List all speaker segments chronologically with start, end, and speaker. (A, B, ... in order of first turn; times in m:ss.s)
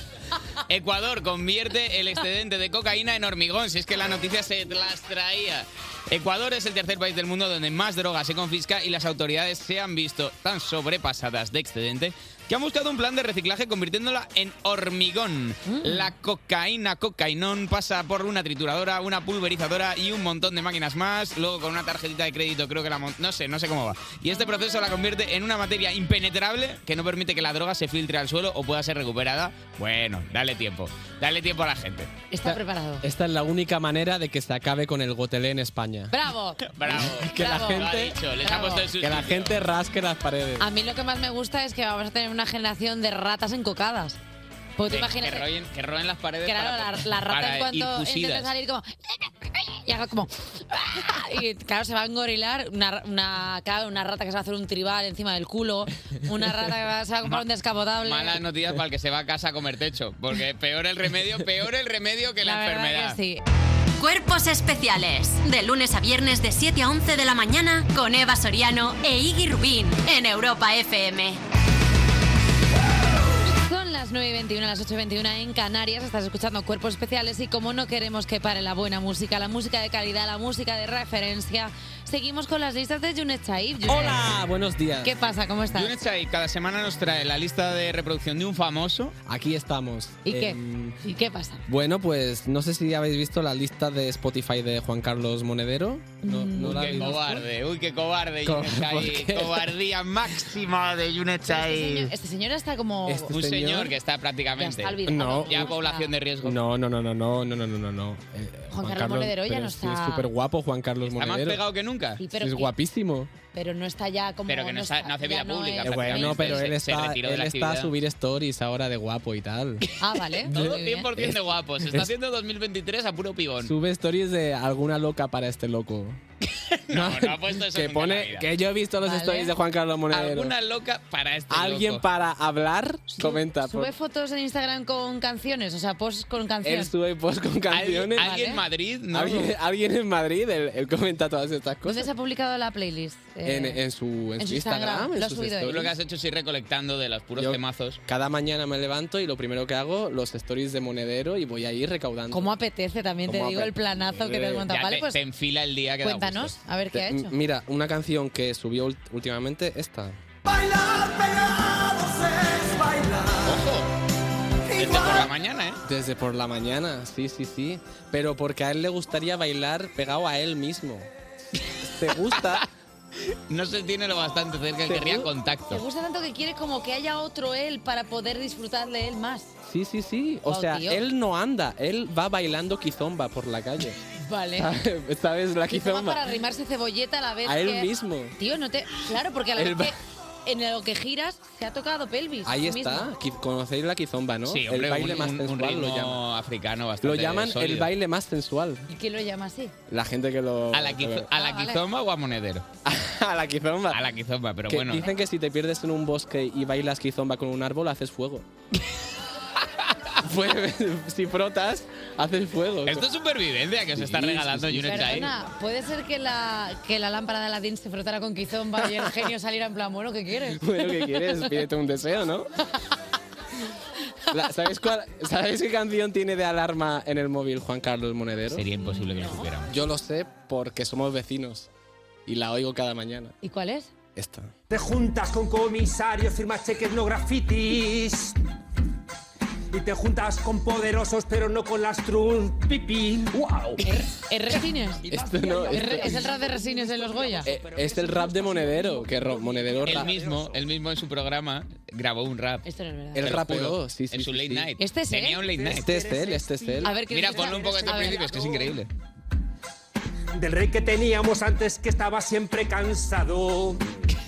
0:00.7-0:32.1 A
0:15.7-0:16.1 B
0:32.3-0:33.0 B
0:32.5-0:36.1 C
0:36.1-0:36.8 B
0:36.7-0:39.6 A
0:36.9-0:38.1 C
0:37.3-0:38.9 B
0:39.0-0:40.7 C
0:40.6-0:44.2 B
0:44.8-0:45.5 B
0:44.9-0:48.5 A
0:46.4-0:58.4 B
0:58.0-1:03.2 A
1:02.4-1:03.4 B
1:04.0-1:11.4 D
1:13.5-1:24.3 B
1:23.9-1:25.1 C
1:25.0-1:25.9 B
1:25.7-1:29.1 A
1:29.3-1:31.0 C
1:30.2-1:31.6 B
1:31.7-1:37.2 C
1:36.2-1:37.4 B
1:36.6-1:42.1 A
1:38.4-1:39.7 C
1:41.5-1:43.4 B
1:43.1-1:43.9 C
1:43.3-1:46.6 A
1:44.6-1:46.1 B
1:45.1-1:45.7 C
1:46.4-1:51.6 C
1:48.7-1:50.3 B
1:51.0-1:52.2 A
1:52.2-1:52.8 B
1:52.4-1:53.3 C
1:53.5-1:56.7 B
1:54.5-1:57.9 A
1:55.8-1:59.8 C
2:00.0-2:01.1 B
2:00.4-2:03.7 A
2:03.6-2:06.2 C
2:06.7-2:08.5 A
2:06.9-2:10.5 C
2:09.0-2:09.6 B
2:10.1-2:12.0 A
2:11.5-2:13.9 C
2:13.1-2:16.9 B
2:16.6-2:18.3 C
2:17.7-2:19.5 A
2:18.2-2:18.6 B
2:19.1-2:22.1 C
2:21.8-2:23.8 B
2:23.4-2:25.9 C
2:24.4-2:25.9 B
2:25.7-2:28.0 A
2:27.4-2:32.5 C
2:32.3-2:35.2 B
2:33.3-2:34.6 C
2:34.7-2:36.6 A
2:36.0-2:37.4 B
2:36.9-2:40.2 C
2:43.4-2:43.9 A
2:44.8-2:45.8 A
2:45.8-2:51.1 C
2:51.8-2:52.7 C
2:53.5-2:55.8 A
2:54.9-2:55.3 C
2:55.7-2:59.6 B
2:59.7-3:04.0 C
3:00.5-3:01.0 B
3:04.2-3:04.7 B
3:04.6-3:06.2 C
3:05.7-3:13.1 B
3:07.4-3:08.4 C
3:09.6-3:09.9 C
3:12.5-3:16.2 C
3:14.5-3:17.9 A
3:17.0-3:18.9 C
3:18.9-3:19.8 B
3:19.9-3:21.3 C
3:20.7-3:22.6 A
3:21.3-3:21.8 B
3:22.8-3:24.0 C
3:23.9-3:25.1 A
3:24.7-3:28.5 C
3:30.2-3:33.0 C
3:32.9-3:35.3 A
3:33.9-3:35.1 C
3:34.8-3:41.4 B
3:40.6-3:42.5 C
3:44.3-3:48.6 C
3:48.5-3:49.8 A
3:48.8-3:49.5 B
3:49.7-3:51.7 C
3:52.3-3:53.4 C
3:53.4-3:53.9 B
3:54.2-3:54.5 C
3:54.7-3:58.4 E
3:59.7-4:03.8 E
4:03.8-4:07.5 B
4:05.1-4:06.2 C
4:05.3-4:05.7 E
4:07.4-4:10.1 C
4:08.2-4:09.8 E
4:09.8-4:12.6 A
4:12.6-4:13.4 B
4:13.2-4:14.7 C
4:13.2-4:15.9 A
4:14.8-4:15.5 B
4:15.6-4:18.8 E
4:15.7-4:16.9 C
4:16.8-4:18.3 B
4:17.1-4:18.9 A
4:20.4-4:23.9 E